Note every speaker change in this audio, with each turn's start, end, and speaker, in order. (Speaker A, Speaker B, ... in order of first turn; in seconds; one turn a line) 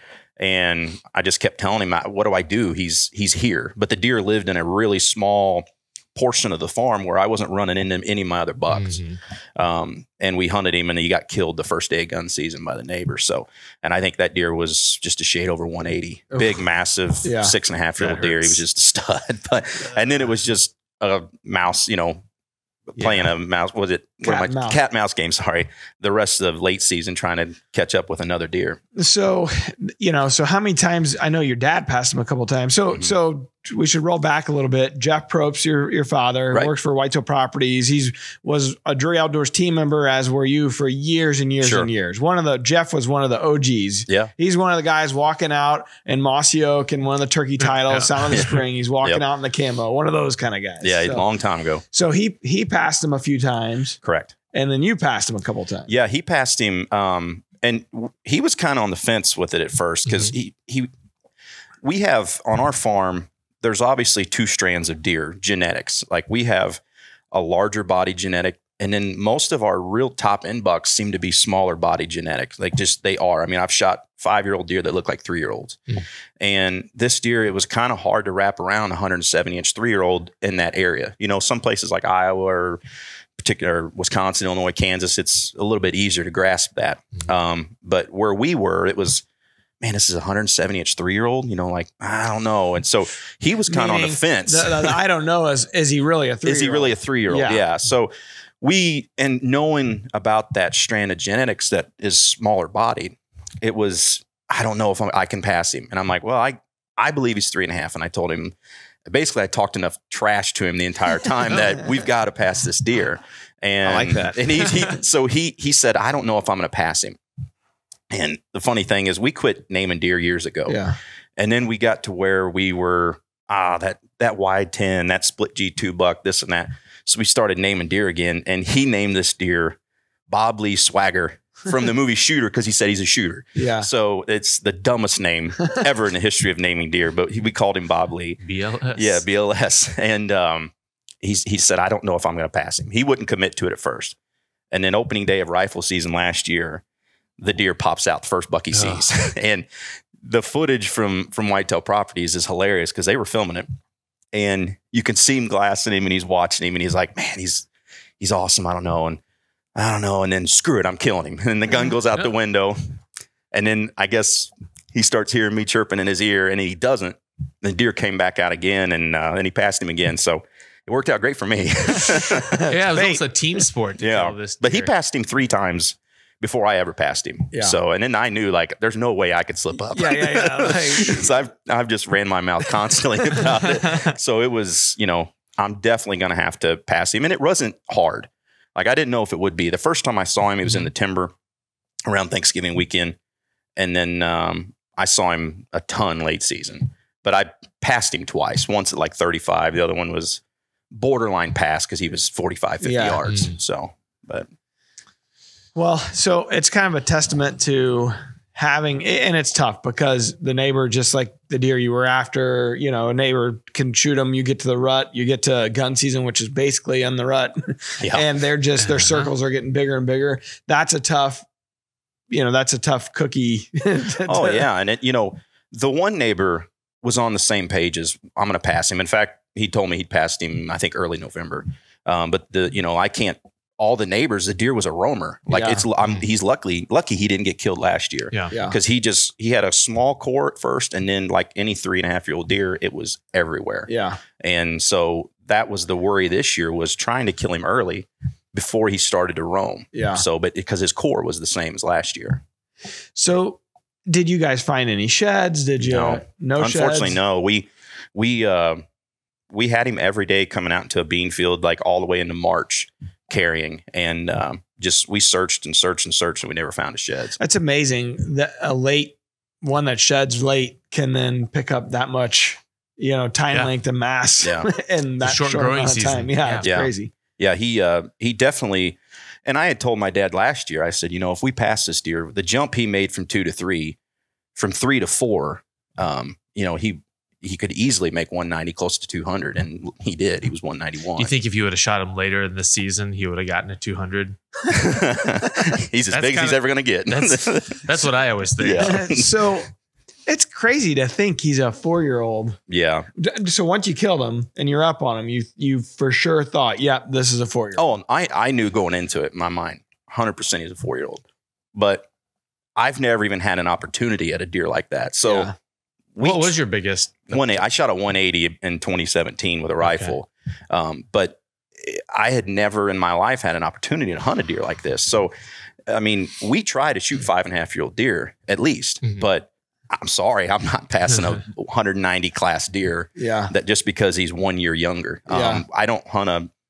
Speaker A: 0.4-9.0
Speaker B: 8.7-9.2
Speaker A: 9.6-22.2
Speaker C: 17.2-17.5
Speaker B: 18.0-18.6
Speaker A: 22.9-28.8
Speaker B: 23.0-23.3
Speaker C: 24.2-24.8
Speaker C: 28.9-51.2
Speaker A: 41.6-41.9
Speaker B: 47.6-48.4
Speaker A: 50.8-51.8
Speaker C: 51.9-54.0
Speaker A: 54.0-54.3
Speaker C: 54.5-55.9
Speaker A: 55.9-60.9
Speaker A: 61.8-75.8
Speaker A: 76.4-82.8
Speaker A: 83.4-89.2
Speaker A: 89.8-95.0
Speaker C: 93.7-97.6
Speaker A: 96.4-117.2
Speaker C: 113.8-114.7
Speaker A: 118.1-120.8
Speaker C: 120.7-121.0
Speaker A: 121.4-129.8
Speaker A: 130.3-138.4
Speaker C: 133.6-133.9
Speaker B: 138.4-139.2
Speaker A: 138.9-144.1
Speaker A: 144.7-146.8
Speaker A: 147.4-149.7
Speaker B: 148.7-149.0
Speaker A: 150.2-153.7
Speaker A: 154.3-157.7
Speaker A: 158.2-159.2
Speaker A: 159.8-162.8
Speaker A: 163.5-172.7
Speaker C: 172.4-173.2
Speaker B: 172.7-174.9
Speaker A: 174.0-191.3
Speaker C: 179.9-181.3
Speaker A: 192.1-193.2
Speaker A: 193.8-200.4
Speaker A: 200.9-204.5
Speaker C: 202.8-203.2
Speaker B: 203.2-203.5
Speaker C: 205.7-221.4
Speaker A: 218.0-218.2
Speaker B: 218.8-219.3
Speaker C: 222.3-224.6
Speaker A: 224.2-252.4
Speaker C: 235.5-235.8
Speaker C: 238.5-238.8
Speaker C: 243.9-244.2
Speaker C: 249.9-250.2
Speaker C: 253.2-257.2
Speaker A: 255.8-258.8
Speaker A: 259.5-267.4
Speaker C: 267.4-277.1
Speaker A: 274.4-274.7
Speaker B: 275.2-276.6
Speaker A: 276.6-283.9
Speaker A: 284.6-291.3
Speaker B: 291.2-294.4
Speaker A: 294.7-298.1
Speaker B: 296.1-299.0
Speaker A: 298.6-299.5
Speaker C: 298.8-299.7
Speaker C: 300.3-302.6
Speaker A: 302.7-303.1
Speaker C: 303.2-307.9
Speaker A: 307.7-311.2
Speaker A: 311.7-312.1
Speaker A: 312.8-315.5
Speaker C: 315.2-315.5
Speaker A: 316.1-316.5
Speaker B: 316.2-317.3
Speaker A: 317.3-325.3
Speaker B: 319.8-320.1
Speaker A: 325.9-336.5
Speaker C: 333.2-333.5
Speaker C: 335.3-335.6